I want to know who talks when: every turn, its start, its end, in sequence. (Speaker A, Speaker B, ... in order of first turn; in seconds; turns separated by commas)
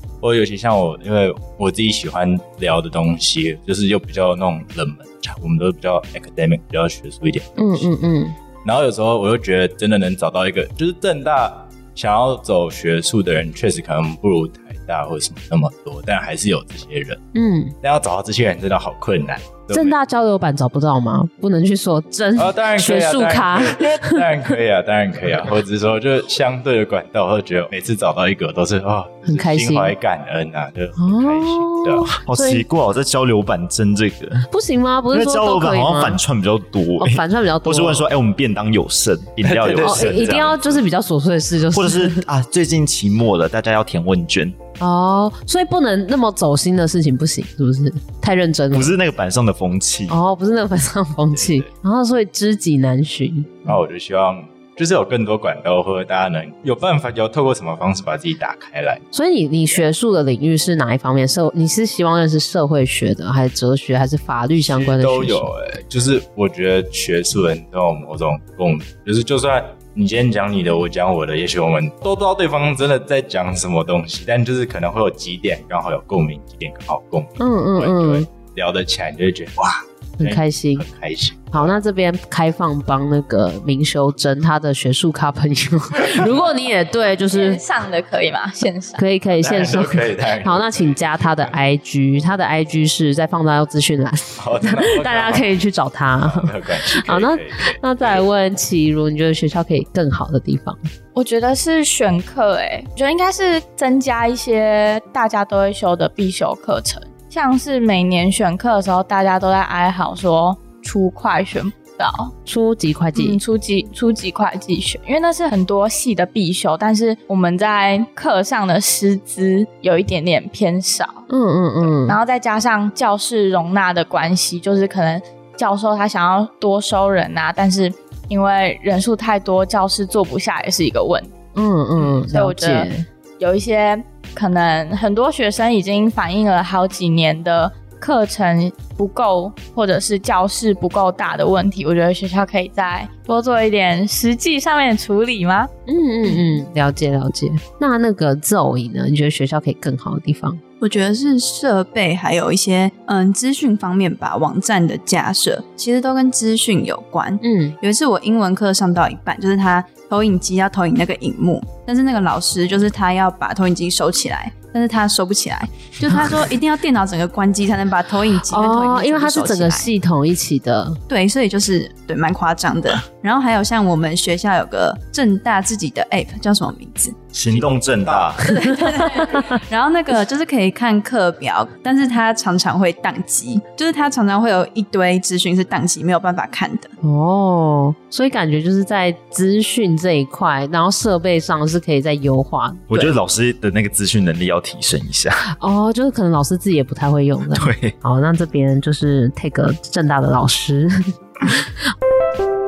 Speaker A: 0.2-8.0, Speaker B: 7.6-8.4, Speaker A: 8.6-17.2, Speaker B: 17.3-17.7, Speaker A: 17.8-20.0, Speaker B: 19.7-24.5, Speaker A: 22.4-32.1, Speaker B: 29.3-29.9, Speaker B: 31.0-32.6, Speaker C: 32.1-34.5, Speaker B: 34.5-36.2, Speaker C: 35.1-40.6, Speaker B: 37.0-38.1, Speaker A: 39.4-40.7, Speaker B: 39.8-42.3, Speaker C: 41.7-44.6, Speaker B: 44.8-49.0, Speaker C: 48.7-50.2, Speaker B: 50.1-53.8, Speaker A: 51.3-51.7, Speaker A: 53.6-59.1, Speaker B: 59.1-65.5, Speaker A: 64.6-81.8, Speaker B: 77.4-78.3, Speaker B: 80.2-80.8, Speaker B: 81.5-87.6, Speaker D: 87.3-89.0, Speaker B: 89.0-100.8, Speaker A: 89.4-91.5, Speaker A: 94.4-95.5, Speaker A: 96.2-98.3, Speaker D: 101.2-112.3, Speaker B: 112.5-113.4, Speaker D: 113.2-121.2, Speaker B: 121.3-122.2, Speaker D: 121.9-131.3, Speaker B: 131.6-133.1, Speaker D: 132.3-145.7, Speaker B: 145.9-150.6, Speaker E: 150.8-169.9, Speaker B: 157.4-157.8, Speaker B: 168.5-171.0, Speaker E: 171.1-177.2, Speaker C: 177.3-178.6, Speaker A: 177.5-178.5, Speaker B: 178.5-179.6, Speaker E: 178.5-186.9, Speaker B: 187.0-193.2, Speaker C: 192.9-195.5, Speaker B: 195.6-201.7, Speaker C: 197.5-197.9